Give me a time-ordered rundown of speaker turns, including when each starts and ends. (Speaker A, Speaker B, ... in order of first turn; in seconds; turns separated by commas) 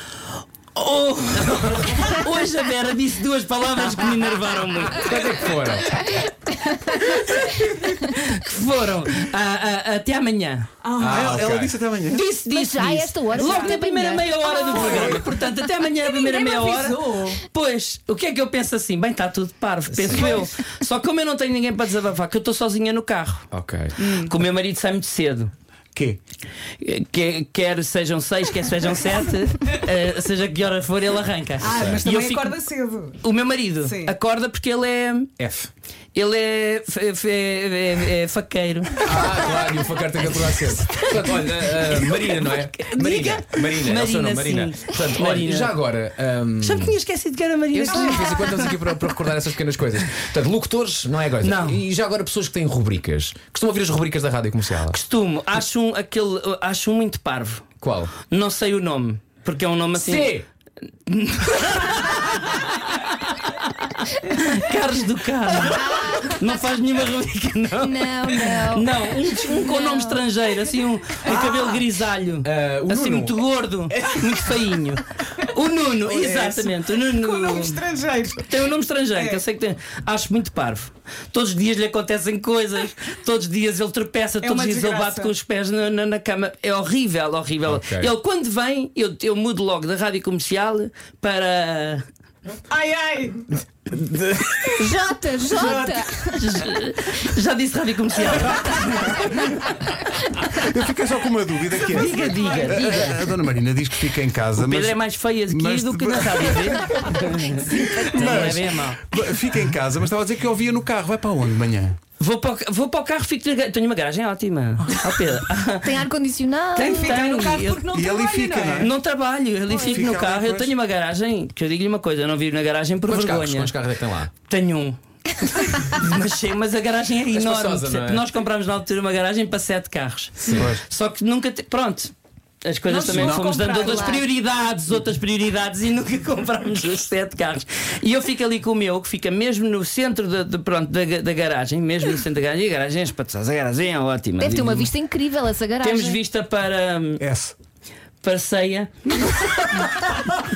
Speaker A: 0.7-5.2, Speaker B: 5.1-6.0, Speaker A: 6.0-10.7, Speaker C: 10.8-11.4, Speaker B: 11.0-11.8, Speaker D: 11.1-12.3, Speaker A: 12.1-23.5, Speaker E: 12.5-15.0, Speaker C: 13.3-15.3, Speaker C: 16.4-17.4, Speaker B: 19.9-20.3, Speaker C: 20.1-20.5, Speaker B: 23.5-23.9, Speaker C: 24.0-24.3, Speaker A: 24.0-25.5, Speaker D: 25.9-26.2, Speaker A: 26.8-32.6, Speaker C: 31.6-33.2, Speaker A: 33.2-35.3, Speaker C: 33.8-34.1, Speaker B: 35.4-35.7, Speaker A: 36.1-39.5, Speaker B: 39.1-47.0, Speaker A: 40.8-45.7, Speaker A: 46.6-48.8, Speaker B: 47.7-55.0, Speaker A: 51.4-51.8, Speaker A: 54.9-57.7, Speaker B: 57.8-58.1, Speaker A: 58.2-60.3, Speaker B: 59.9-60.5, Speaker A: 61.1-77.8, Speaker E: 65.7-66.3, Speaker E: 67.8-70.2, Speaker C: 71.2-71.8, Speaker B: 72.4-73.3, Speaker B: 73.9-74.5, Speaker C: 76.0-78.5, Speaker A: 78.4-92.0, Speaker C: 79.2-79.4, Speaker C: 84.4-85.3, Speaker B: 87.7-88.1, Speaker C: 92.7-93.5, Speaker B: 94.3-94.6, Speaker E: 94.8-96.5, Speaker A: 95.5-100.0, Speaker D: 100.4-106.8, Speaker A: 101.8-103.3, Speaker C: 102.2-102.7, Speaker A: 104.6-109.0, Speaker C: 107.5-108.0, Speaker D: 107.7-112.0, Speaker A: 112.2-116.0, Speaker E: 115.8-117.2, Speaker A: 116.8-117.9, Speaker C: 116.8-118.9, Speaker D: 117.9-118.9, Speaker A: 118.8-123.7, Speaker D: 119.7-120.8, Speaker B: 123.1-124.3, Speaker A: 124.5-144.9, Speaker B: 127.3-128.2, Speaker B: 130.4-130.7, Speaker D: 130.6-130.8, Speaker C: 132.9-134.2, Speaker B: 133.1-133.4, Speaker E: 133.8-134.2, Speaker E: 144.4-146.2, Speaker A: 145.8-147.2, Speaker D: 147.2-147.6, Speaker A: 148.2-150.1